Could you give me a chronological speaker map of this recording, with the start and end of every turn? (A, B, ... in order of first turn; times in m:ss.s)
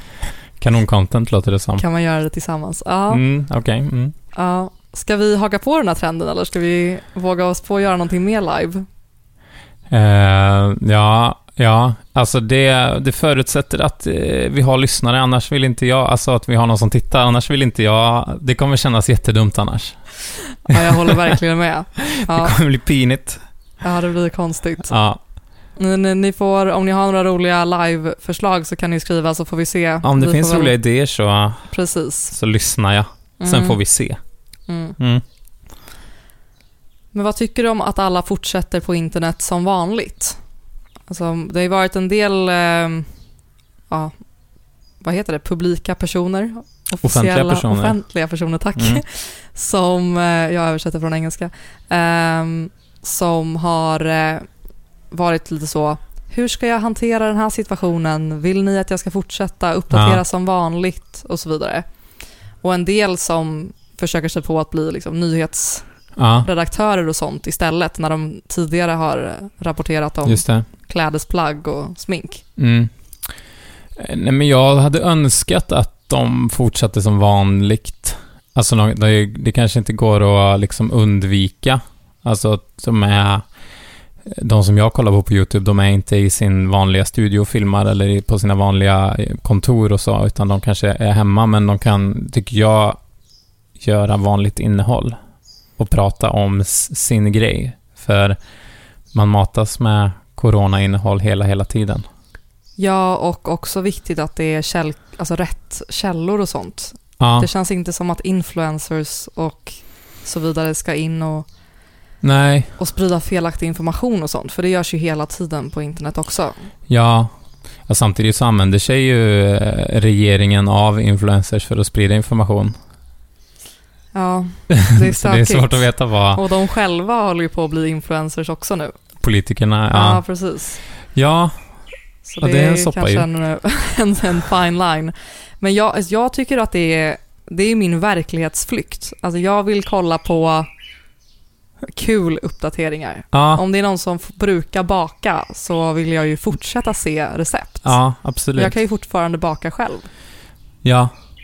0:00.6-0:01.8 A
0:01.8-0:03.2 B
0:03.1-0:04.1 A
0:04.3-0:08.8 B
0:09.9-0:20.0 A
0:20.6-0:22.6 B
0:20.7-0:21.3 A
0:22.0-0:23.4 A
0:23.8-0:24.9 B
0:24.9-0:25.2 A
0:25.8-0:30.7 B
0:30.0-0:31.7 A
0:31.7-0:32.3 B
0:32.3-0:34.2 A
0:33.4-0:33.8 B
0:34.7-0:35.0 B
0:37.1-0:40.4 B
0:41.1-0:43.1 B
0:45.0-0:54.5 B
0:47.0-0:48.0 A
0:48.8-0:49.0 A
0:55.1-1:01.8 B
0:59.9-1:00.2 A
1:02.6-1:05.8 B
1:06.2-1:06.5 A
1:06.4-1:12.4 B
1:10.2-1:10.6 A
1:12.6-1:12.9 A
1:14.0-1:23.4 A
1:24.2-1:33.0 A
1:33.8-1:35.2 A
1:35.8-1:38.4 A
1:39.1-1:42.0 A
1:42.8-1:51.4 B
1:47.2-1:47.5 A
1:52.2-1:52.7 A
1:52.8-1:56.5 B
1:56.9-1:57.3 A
1:57.9-2:02.7 A
2:04.1-2:08.9 B
2:04.7-2:06.4 A
2:09.2-2:10.2 A
2:09.9-2:10.8 B
2:11.1-2:11.5 A
2:12.2-2:20.7 B
2:12.4-2:13.3 A
2:21.9-2:28.0 B
2:23.3-2:23.6 A
2:27.8-2:28.8 A
2:28.5-2:30.1 B
2:30.8-2:31.1 A